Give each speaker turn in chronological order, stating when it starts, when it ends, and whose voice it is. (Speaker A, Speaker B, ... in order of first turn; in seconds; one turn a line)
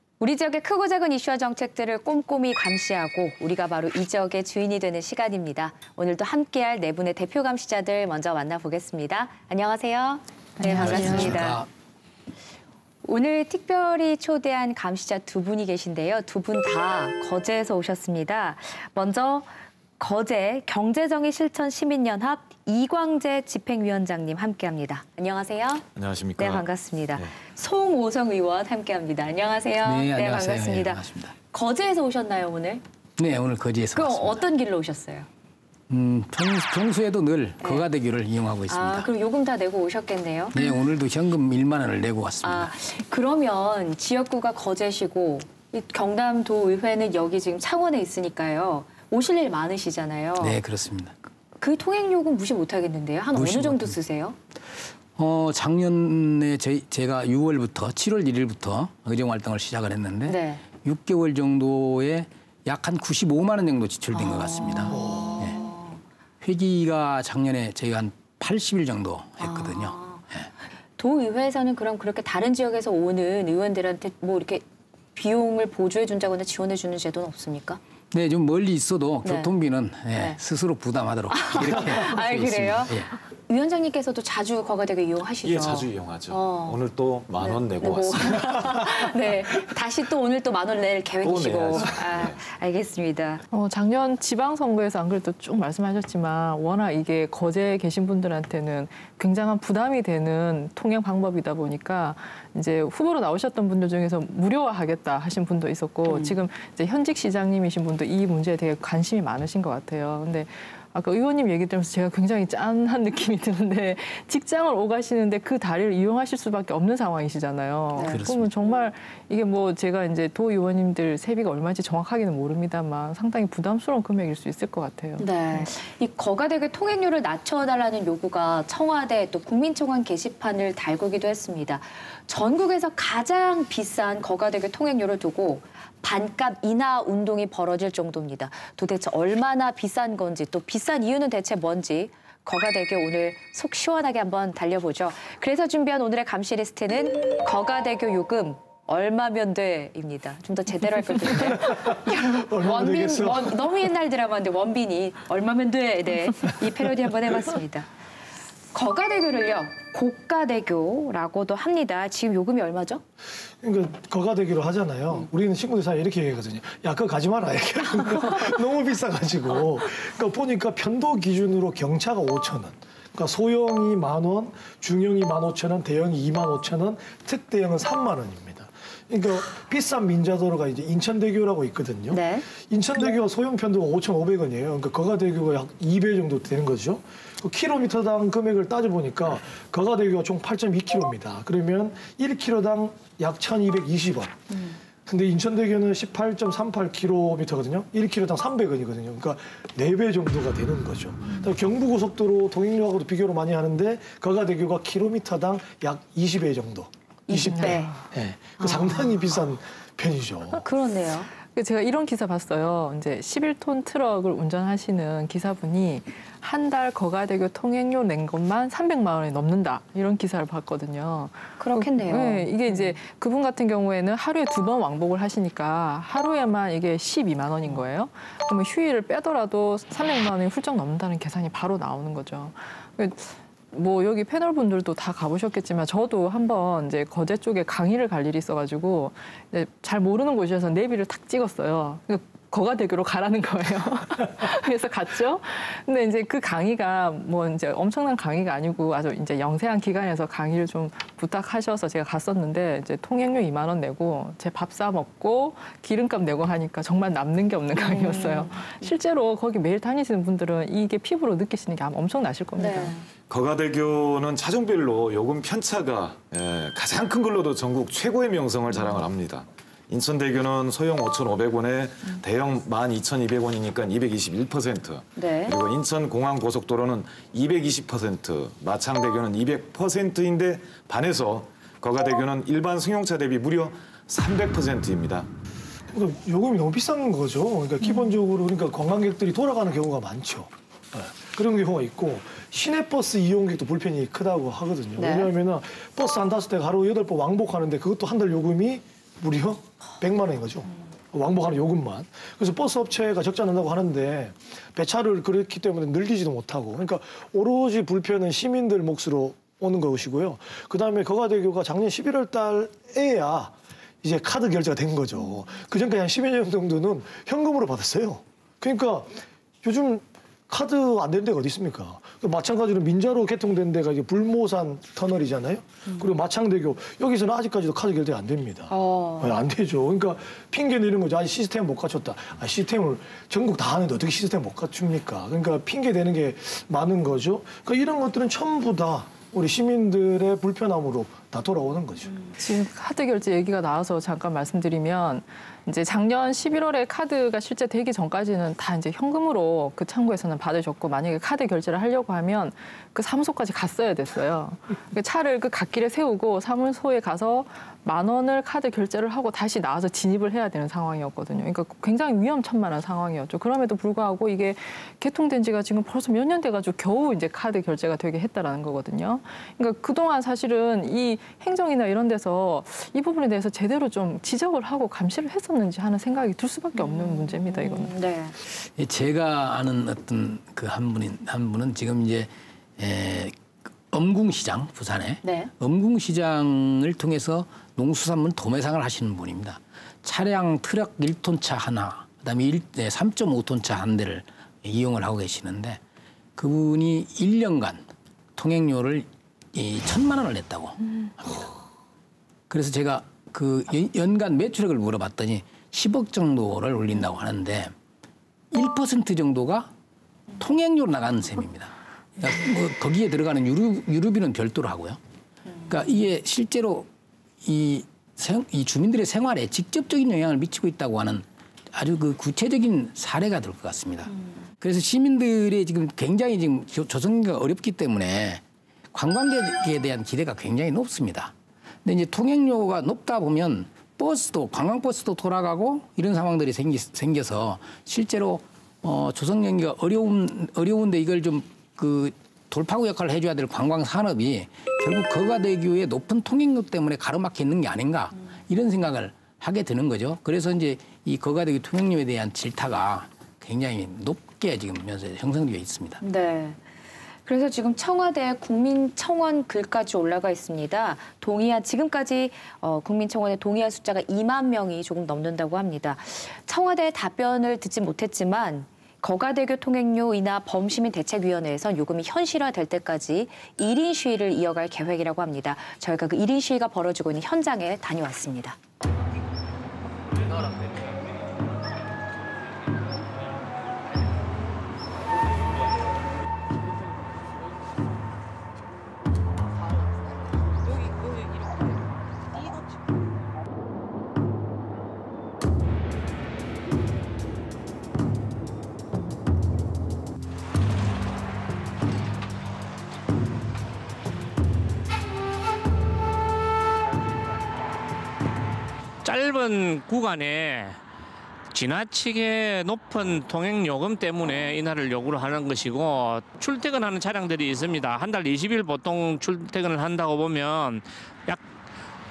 Speaker A: 0.2-11.6
Speaker B: 10.6-11.0
Speaker C: 10.6-11.7
Speaker A: 13.0-25.9
Speaker D: 25.9-27.3
Speaker A: 26.4-32.8
Speaker C: 29.8-31.3
Speaker C: 33.2-34.4
Speaker A: 33.9-35.3
Speaker C: 35.9-39.1
Speaker A: 38.7-40.6
Speaker C: 40.5-42.7
Speaker A: 42.4-50.6
Speaker C: 50.4-51.1
Speaker A: 51.6-54.4
Speaker C: 53.3-54.0
Speaker C: 55.1-65.6
Speaker A: 60.3-60.6
Speaker A: 64.1-66.0
Speaker E: 64.9-65.5
Speaker C: 66.4-70.5
Speaker A: 69.4-70.2
Speaker A: 71.0-74.6
Speaker A: 75.1-77.8
Speaker C: 78.1-83.1
Speaker A: 79.2-79.5
Speaker A: 81.3-82.9
Speaker A: 83.5-86.8
Speaker D: 85.4-88.9
Speaker A: 87.4-93.4
Speaker D: 91.2-92.4
Speaker B: 93.5-125.7
Speaker A: 106.1-106.4
Speaker C: 118.1-118.5
Speaker A: 125.2-157.9
Speaker E: 151.3-153.7
Speaker A: 158.7-163.0
Speaker E: 163.6-194.4
Speaker A: 182.1-182.4
Speaker A: 194.5-194.8
Speaker E: 195.1-210.6
Speaker A: 207.3-207.9
Speaker B: 207.5-207.9
Speaker A: 208.6-209.0
Speaker A: 210.5-211.3
Speaker B: 211.5-263.0
Speaker A: 221.6-223.0
Speaker A: 257.8-258.9
Speaker A: 262.6-263.0
Speaker D: 263.3-285.3
Speaker A: 275.1-275.6
Speaker E: 285.9-342.1
Speaker A: 295.0-295.3
Speaker A: 328.7-329.4
Speaker B: 342.4-377.9
Speaker A: 376.8-378.3
Speaker C: 378.6-383.3
Speaker C: 383.9-395.8
Speaker A: 385.2-385.5
Speaker C: 396.4-401.5
Speaker C: 402.5-407.7
Speaker C: 408.5-409.7
Speaker C: 410.4-415.0
Speaker C: 415.7-416.9
Speaker C: 417.4-428.4
Speaker C: 428.9-431.3
Speaker C: 431.8-456.0
Speaker A: 456.0-456.6
Speaker A: 457.2-478.6
Speaker F: 509.0-510.8
Speaker F: 511.5-521.4